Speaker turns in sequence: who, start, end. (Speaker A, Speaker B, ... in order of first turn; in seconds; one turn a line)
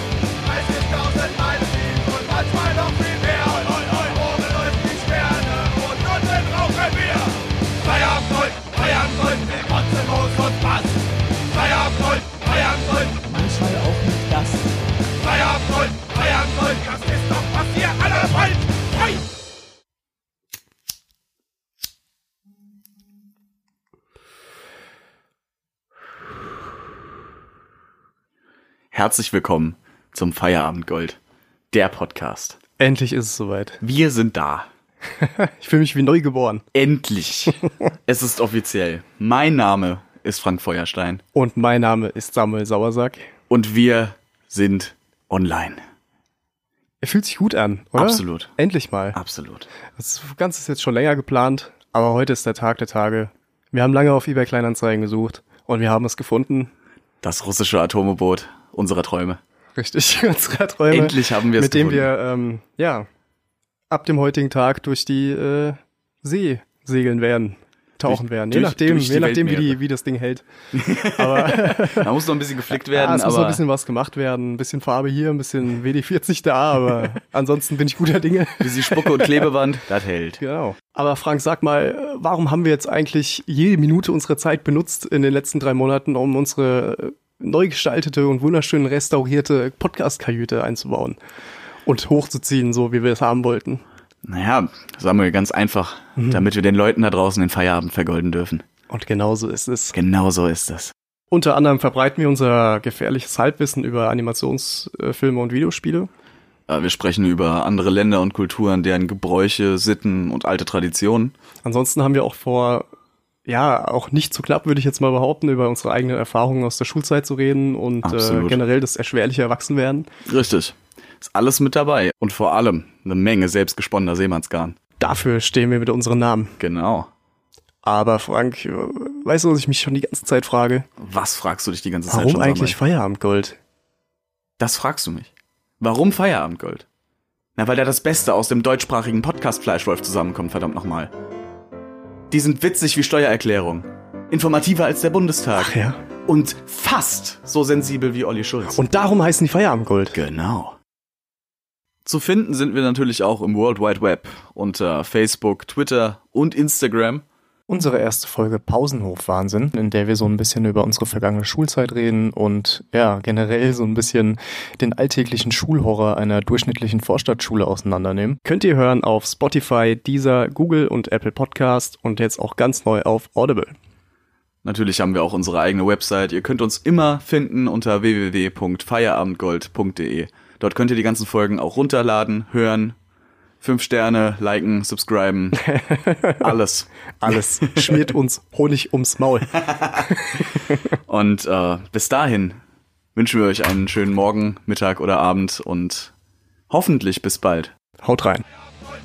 Speaker A: 0.5-11.0
Speaker A: 11.6-14.4
Speaker B: 13.2-14.6
Speaker A: 15.4-19.1
Speaker B: 28.9-31.2
Speaker B: 31.7-32.6
Speaker C: 32.8-33.8
Speaker B: 33.8-34.7
Speaker C: 35.2-36.6
Speaker B: 36.7-41.2
Speaker C: 41.3-43.3
Speaker B: 43.5-45.8
Speaker C: 47.0-49.2
Speaker B: 48.0-48.5
Speaker B: 49.1-49.7
Speaker C: 50.0-56.7
Speaker B: 57.2-59.4
Speaker C: 59.8-63.1
Speaker B: 60.9-62.1
Speaker C: 63.9-72.1
Speaker B: 68.0-69.8
Speaker B: 70.7-73.6
Speaker C: 72.8-79.5
Speaker B: 78.6-80.4
Speaker C: 80.4-91.2
Speaker C: 91.8-93.8
Speaker B: 94.2-98.7
Speaker C: 96.2-96.4
Speaker C: 98.9-100.0
Speaker B: 99.9-100.9
Speaker C: 101.3-106.1
Speaker B: 106.7-111.3
Speaker C: 111.6-112.9
Speaker C: 113.5-120.1
Speaker B: 118.0-118.6
Speaker B: 120.2-124.8
Speaker C: 125.0-126.6
Speaker B: 126.6-127.1
Speaker C: 127.8-130.9
Speaker B: 131.0-132.8
Speaker C: 132.1-133.6
Speaker B: 134.6-136.8
Speaker B: 137.6-141.1
Speaker B: 142.3-145.7
Speaker C: 145.6-146.0
Speaker B: 146.3-148.8
Speaker C: 148.7-150.2
Speaker B: 150.1-150.8
Speaker B: 152.1-157.2
Speaker D: 157.7-168.4
Speaker C: 168.4-173.7
Speaker B: 174.6-183.0
Speaker B: 183.6-185.7
Speaker C: 185.7-186.5
Speaker B: 186.4-188.1
Speaker C: 187.2-190.4
Speaker B: 189.5-190.4
Speaker B: 191.1-192.6
Speaker B: 193.2-196.1
Speaker B: 196.7-197.7
Speaker C: 198.0-198.4